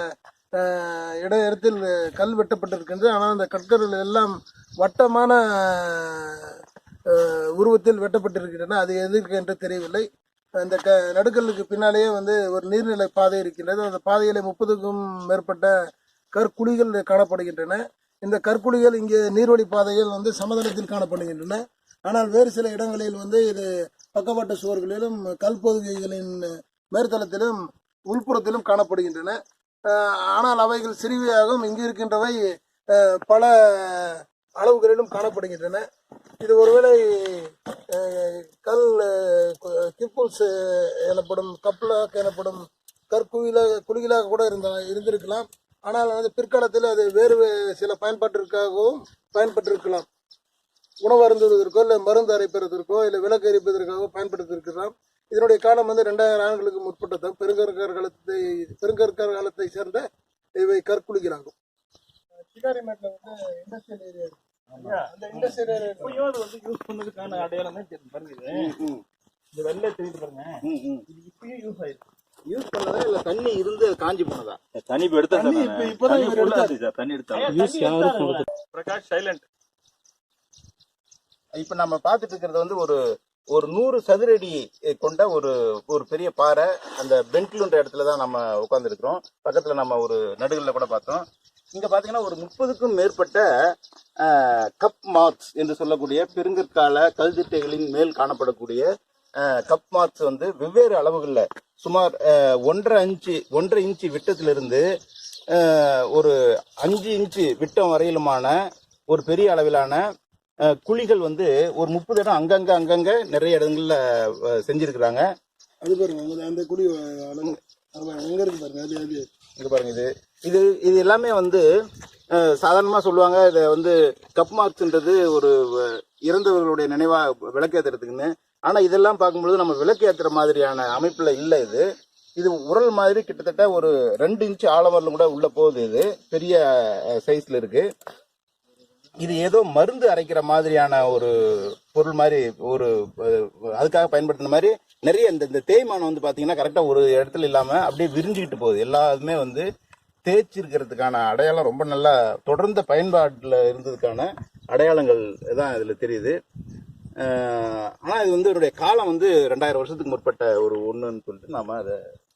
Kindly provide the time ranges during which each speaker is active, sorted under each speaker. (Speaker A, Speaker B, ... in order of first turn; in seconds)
Speaker A: 0.6-6.6, 7.1-10.0, 10.6-15.7, 16.3-27.6, 28.1-29.4, 29.9-32.4, 32.9-35.8, 36.4-50.1, 51.0-60.0, 60.6-61.5, 62.4-66.2, 75.3-76.7, 115.8-119.3
Speaker B: 64.8-68.8, 69.5-72.0, 75.5-76.4, 77.3-79.4
Speaker C: 68.5-69.0, 70.6-71.0, 72.5-74.6, 81.6-83.0, 83.5-98.9, 99.4-104.8, 105.5-108.5, 109.1-110.0, 110.7-115.2, 119.6-121.6, 122.3-137.9, 139.2-149.7, 150.2-156.4, 157.2-162.0
Speaker D: 74.8-78.5